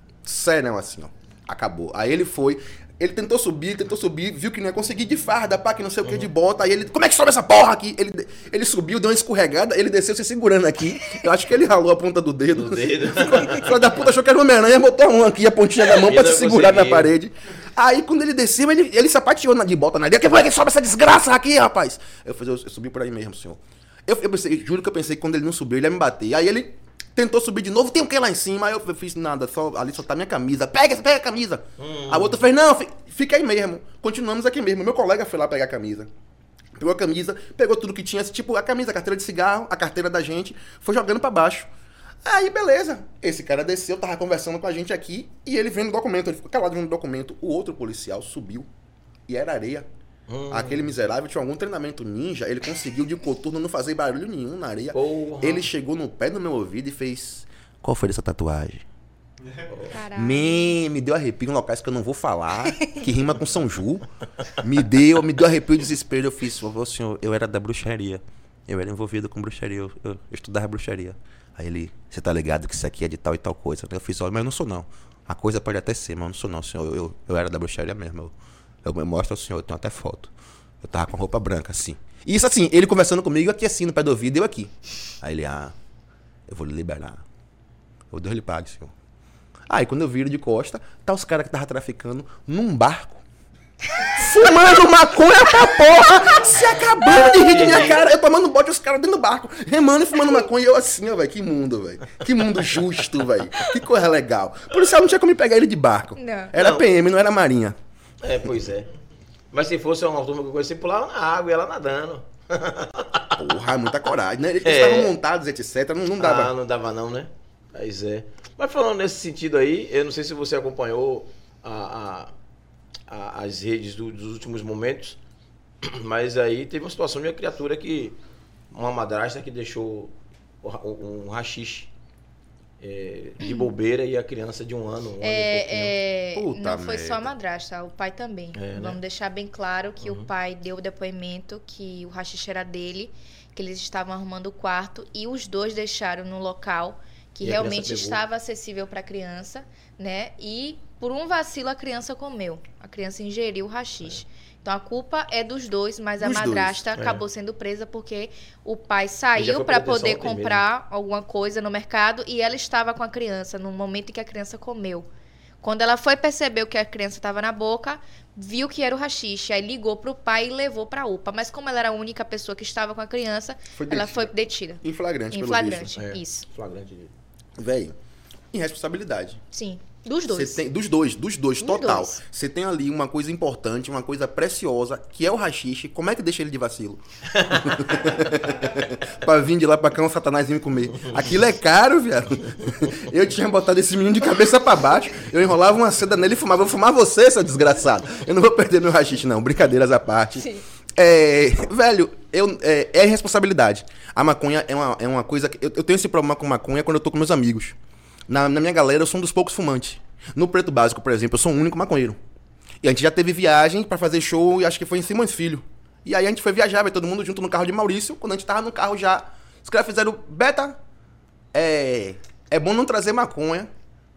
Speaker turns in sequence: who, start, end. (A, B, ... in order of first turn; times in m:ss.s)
0:00.2-0:36.1 A
0:12.5-0:13.9 B
0:15.9-0:17.1 B
0:31.8-0:32.4 B
0:36.8-0:41.7 A
0:42.2-0:48.7 A
0:49.3-0:49.9 A
0:50.3-0:50.9 B
0:50.5-0:58.8 A
0:54.9-0:55.7 B
0:59.7-1:00.0 B
0:59.9-1:00.7 C
1:00.1-1:20.3 A
1:20.8-1:25.8 A
1:26.5-1:27.2 A
1:28.1-1:28.9 A
1:29.7-1:33.2 A
1:34.0-1:47.8 A
1:37.1-1:38.0 B
1:46.2-1:46.5 C
1:46.6-1:46.8 B
1:48.2-1:48.9 B
1:49.5-1:53.5 B
1:53.4-1:56.5 A
1:54.6-1:55.2 B
1:56.2-2:02.3 B
2:03.1-2:05.2 B
2:05.8-2:08.2 B
2:08.7-2:11.9 B
2:12.8-2:16.0 B
2:15.2-2:45.1 C
2:16.4-2:17.3 A
2:18.6-2:19.0 B
2:20.0-2:20.3 B
2:27.4-2:28.2 B
2:36.2-2:36.8 A
2:37.0-2:37.2 B
2:39.4-2:40.6 B
2:45.6-2:56.5 C
2:53.8-2:56.0 A
2:56.0-2:57.1 B
2:57.6-2:58.0 A
2:58.5-2:59.4 A
2:59.5-3:00.6 C
3:00.3-3:27.8 A
3:01.6-3:02.2 C
3:07.3-3:08.1 B
3:28.3-3:32.2 A
3:32.8-3:40.8 A
3:41.5-3:43.7 A